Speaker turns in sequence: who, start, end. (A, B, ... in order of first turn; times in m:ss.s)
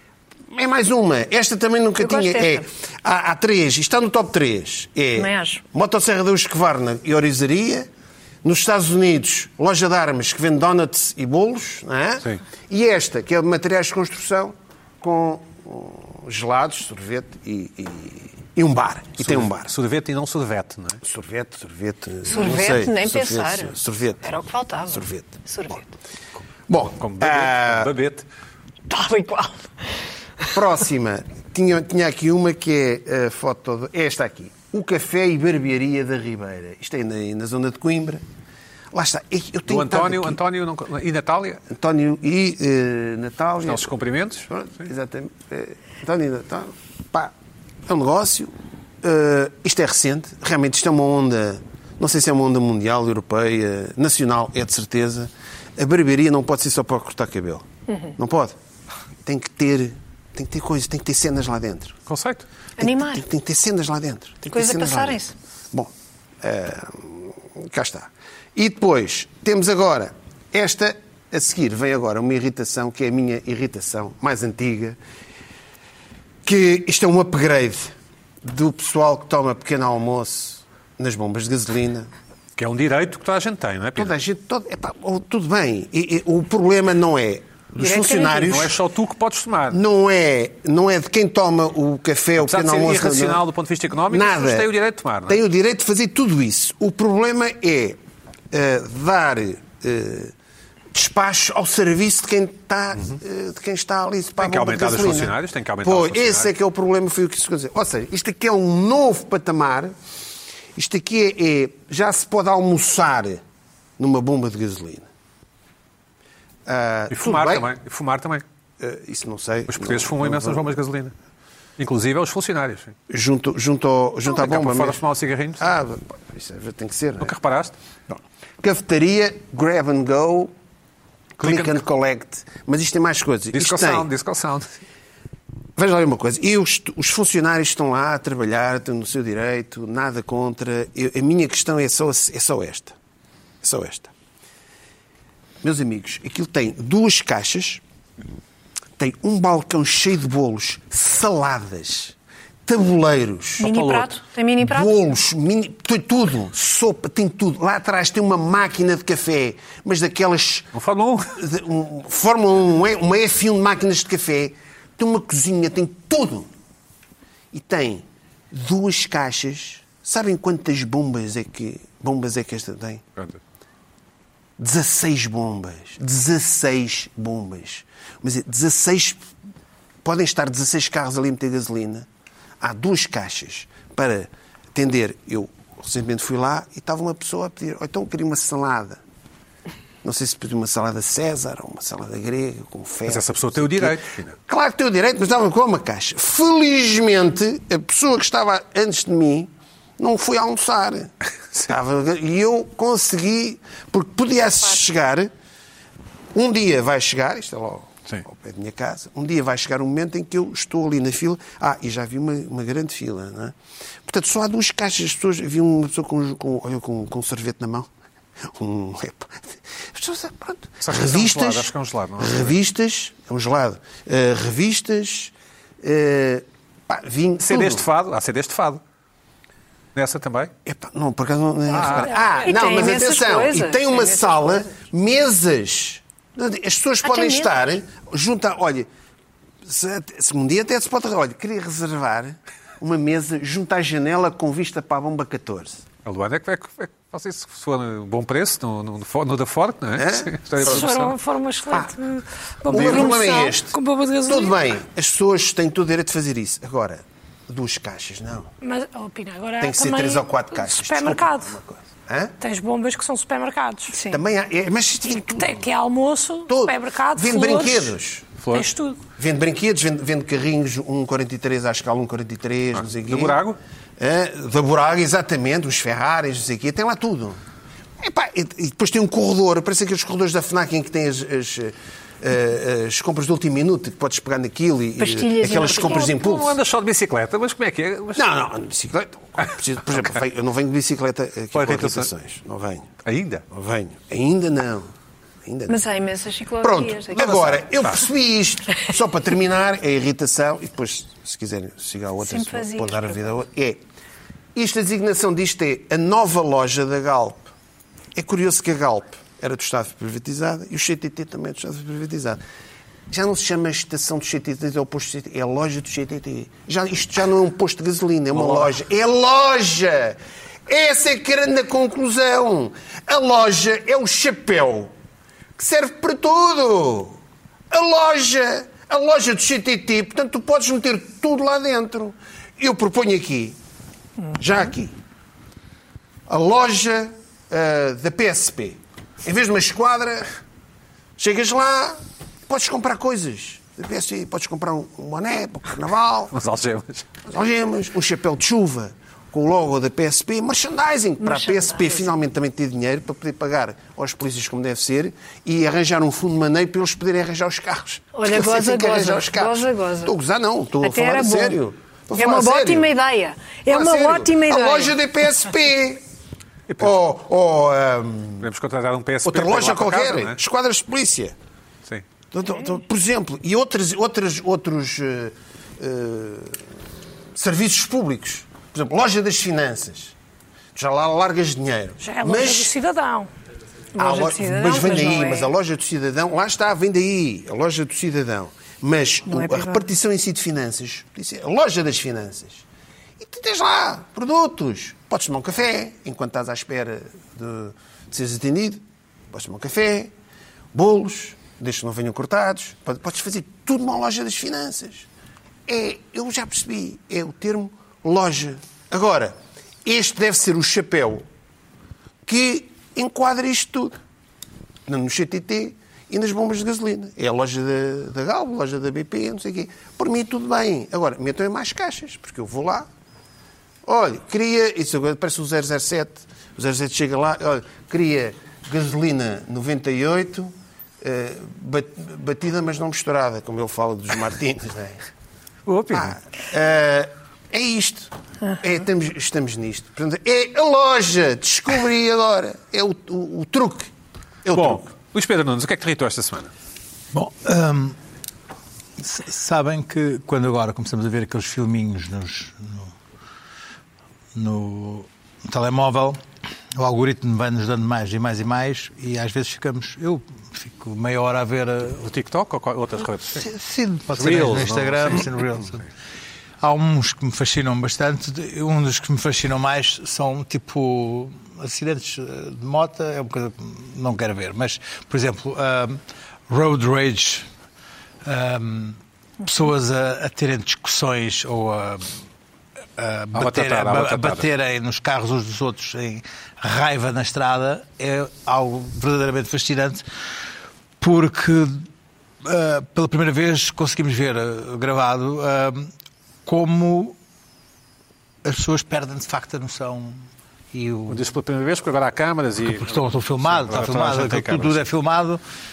0:00.5-0:07.9 A
0:02.0-0:02.6 B
0:05.2-0:05.6 B
0:08.4-0:19.7 A
0:19.2-0:21.0 C
0:21.0-0:24.3 A
0:22.2-0:25.9 B
0:24.9-0:25.7 A
0:26.7-0:27.9 A
0:26.9-0:28.2 C
0:28.9-0:29.7 B
0:30.5-0:38.2 A
0:38.9-0:40.4 A
0:39.7-0:41.6 C
0:41.7-0:43.9 A
0:43.6-0:44.5 C
0:44.5-0:47.3 A
0:47.8-0:58.6 A
0:59.2-1:02.0 A
1:02.1-1:02.4 C
1:02.8-1:03.2 B
1:02.8-1:05.2 A
1:04.5-1:05.3 B
1:05.7-1:15.0 A
1:16.4-1:22.1 A
1:22.6-1:24.1 C
1:23.9-1:28.8 A
1:27.8-1:28.6 B
1:28.3-1:29.8 C
1:29.7-1:33.4 A
1:32.4-1:35.4 C
1:34.0-1:34.7 A
1:35.2-1:38.0 A
1:38.5-1:40.3 A
1:40.9-1:49.9 A
1:44.4-1:46.5 C
1:50.7-1:53.4 A
1:54.0-1:55.1 A
1:56.6-1:57.7 A
1:57.1-1:58.4 C
1:58.8-2:00.7 A
1:59.7-2:01.1 C
2:01.8-2:02.9 C
2:03.1-2:05.0 A
2:04.3-2:05.6 C
2:05.6-2:07.3 A
2:07.2-2:07.8 C
2:08.1-2:10.5 A
2:11.4-2:14.1 A
2:11.4-2:11.8 C
2:13.5-2:14.8 C
2:15.8-2:22.9 A
2:23.6-2:24.1 A
2:25.6-2:27.8 A
2:29.0-2:32.1 A
2:32.6-2:33.8 A
2:33.6-2:34.9 B
2:33.6-2:34.1 C
2:34.6-2:40.7 A
2:40.7-2:41.4 C
2:41.4-2:46.5 A
2:47.5-2:53.0 A
2:54.6-2:59.2 A
3:00.0-3:02.1 A
3:02.6-3:09.0 A
3:10.0-3:25.3 A
3:13.1-3:14.4 C
3:26.3-3:37.9 A
3:38.4-3:47.9 A
3:40.8-3:42.6 C
3:47.4-3:48.8 C
3:49.9-3:50.5 C
3:50.6-3:58.9 A
3:51.7-3:52.2 C
3:51.9-3:52.9 D
3:52.4-3:54.7 B
3:57.0-3:57.6 B
3:59.6-4:05.8 A
4:06.0-4:11.1 C
4:10.0-4:10.8 A
4:10.6-4:14.6 D
4:12.7-4:18.5 A
4:18.6-4:21.5 D
4:19.6-4:22.3 A
4:22.4-4:24.0 D
4:23.9-4:24.2 B
4:24.1-4:25.6 A
4:25.1-4:27.9 D
4:26.5-4:28.2 A
4:28.4-4:28.7 C
4:28.5-4:29.0 D
4:29.2-4:33.4 A
4:32.7-4:33.6 C
4:34.0-4:37.4 A
4:38.0-4:46.6 A
4:45.0-4:46.2 B
4:45.6-4:48.2 C
4:48.1-4:52.9 A
4:51.5-4:52.1 C
4:53.0-4:53.4 C
4:53.5-4:54.9 A
4:55.4-4:55.8 A
4:55.7-4:57.5 B
4:56.6-5:03.8 A
4:57.2-4:58.0 C
5:02.2-5:03.0 B
5:04.5-5:07.5 A
5:08.1-5:12.4 A
5:13.1-5:24.9 A
5:18.3-5:18.7 C
5:25.6-5:27.2 A
5:27.7-5:33.6 A
5:34.3-5:34.9 A
5:36.3-5:40.3 A
5:41.2-5:46.3 A
5:46.3-5:47.0 C
5:47.2-6:02.9 A
5:51.2-5:51.9 B
5:58.1-6:00.1 B
6:00.8-6:01.6 B
6:02.1-6:05.0 B
6:03.7-6:06.0 A
6:06.7-6:07.0 C
6:06.8-6:08.5 A
6:08.4-6:10.4 C
6:09.2-6:11.3 A
6:12.3-6:16.6 A
6:17.3-6:20.1 A
6:20.7-6:22.7 A
6:22.0-6:23.3 D
6:23.9-6:25.5 B
6:24.0-6:32.6 A
6:29.3-6:29.8 B
6:33.2-6:40.1 A
6:40.7-6:45.1 A
6:45.7-6:51.2 A
6:52.2-6:54.0 A
6:54.9-7:02.9 A
7:03.8-7:15.0 A
7:15.6-7:16.2 C
7:15.9-7:23.9 A
7:24.4-7:24.9 A
7:24.5-7:26.5 C
7:27.1-7:28.0 E
7:29.0-7:32.9 E
7:34.3-7:36.2 E
7:36.7-7:42.0 E
7:42.0-7:43.5 C
7:43.3-7:45.8 E
7:44.1-7:45.7 C
7:46.6-7:57.5 E
7:58.2-8:02.1 E
8:03.0-8:10.0 E
8:03.3-8:04.5 C
8:11.0-8:11.8 E
8:12.4-8:15.9 E
8:16.4-8:17.2 E
8:18.4-8:21.2 E
8:21.1-8:24.8 C
8:22.6-8:25.4 E